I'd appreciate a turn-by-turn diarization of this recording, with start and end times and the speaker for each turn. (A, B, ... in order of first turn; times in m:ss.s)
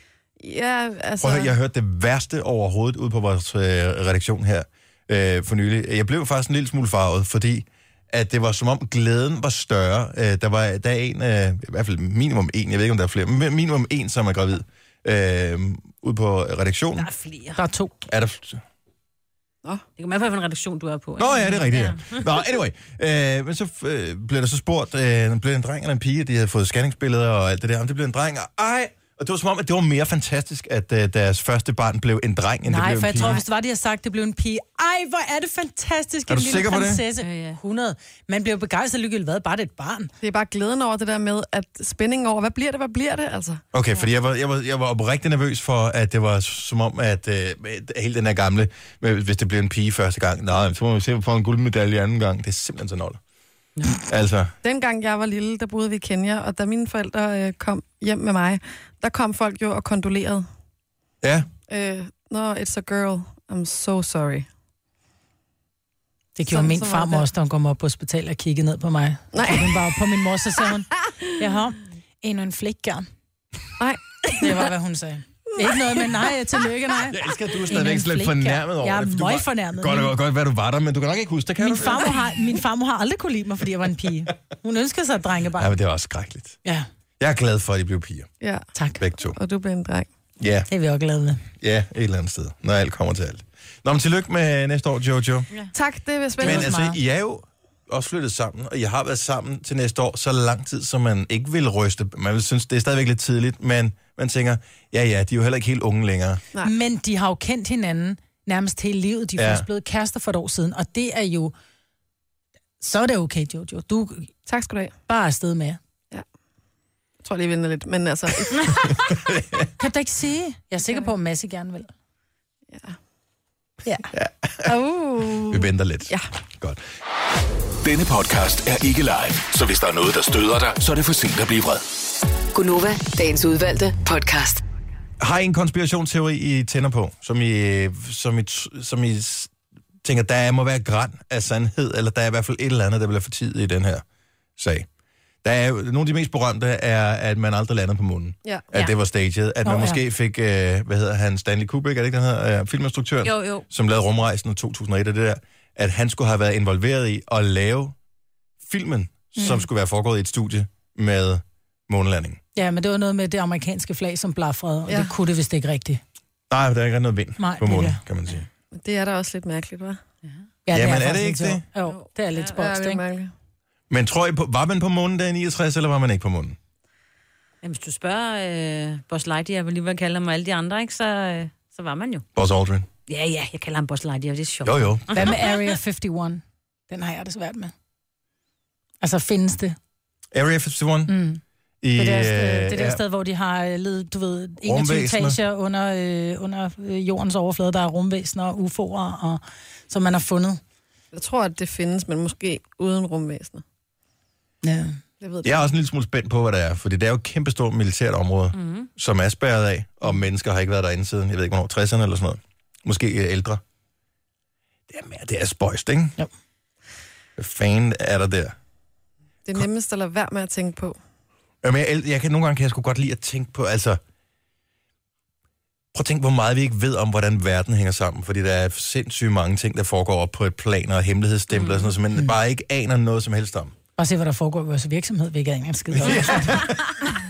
0:00.4-0:01.5 A
0:01.2-0:17.1 B
0:17.0-0:17.6 C
0:17.6-0:17.9 D
0:18.0-0:18.6 B
0:20.0-0:22.2 C
0:21.2-0:33.4 B
0:32.6-0:40.1 D
0:36.3-0:37.0 B
0:37.2-0:37.6 C
0:40.2-0:43.6 A
0:43.7-0:53.2 B
0:54.0-0:54.5 B
0:54.6-1:00.4 A
1:01.2-1:01.5 B
1:01.7-1:04.4 A
1:06.4-1:13.0 D
1:06.5-1:07.2 A
1:09.3-1:10.2 A
1:13.8-1:14.7 A
1:14.3-1:20.1 D
1:15.6-1:16.0 A
1:17.1-1:22.2 B
1:21.6-1:25.7 D
1:25.6-1:26.6 B
1:27.2-1:28.3 B
1:28.4-1:28.6 A
1:28.7-1:29.0 D
1:29.0-1:29.4 B
1:29.2-1:30.1 A
1:30.4-1:30.7 B
1:30.7-1:31.4 D
1:31.6-1:35.5 B
1:35.7-1:36.7 A
1:36.4-1:37.0 D
1:36.4-1:46.4 B
1:46.6-1:51.5 D
1:49.4-1:49.6 B
1:52.8-1:54.3 D
1:54.5-1:54.9 A
1:55.1-1:55.8 D
1:57.2-1:59.0 A
1:59.1-1:59.6 B
1:59.8-2:01.9 D
2:02.7-2:03.0 A
2:04.1-2:04.8 B
2:04.6-2:06.2 A
2:05.5-2:06.8 B
2:07.8-2:11.8 E
2:12.5-2:14.6 F
2:15.2-2:19.5 B
2:20.0-2:24.0 B
2:24.6-2:24.9 B
2:25.4-2:38.0 B
2:29.6-2:30.0 D
2:33.2-2:33.6 C
2:38.6-2:42.4 B
2:42.5-2:46.0 D
2:46.5-2:48.5 B
2:47.4-2:48.0 D
2:48.7-2:50.0 A
2:50.6-2:53.0 D
2:50.7-2:51.6 B
2:52.6-2:53.3 A
2:53.9-2:56.6 B
2:57.6-3:02.2 C
3:02.3-3:02.9 B
3:03.1-3:05.6 C
3:04.6-3:05.3 B
3:05.1-3:07.7 D
3:09.0-3:09.8 D
3:10.3-3:11.1 B
3:11.1-3:11.4 D
3:11.8-3:13.0 B
3:12.0-3:20.6 D
3:14.6-3:15.4 B
3:21.1-3:23.6 A
3:24.6-3:25.0 D
3:25.2-3:25.7 A
3:25.4-3:33.6 B
3:28.5-3:28.9 C
3:34.9-3:36.2 B
3:37.4-3:38.5 B
3:39.4-3:41.0 A
3:41.6-3:44.0 B
3:45.9-3:53.7 B
3:51.5-3:51.9 C
3:54.0-3:56.6 D
3:56.0-3:57.0 B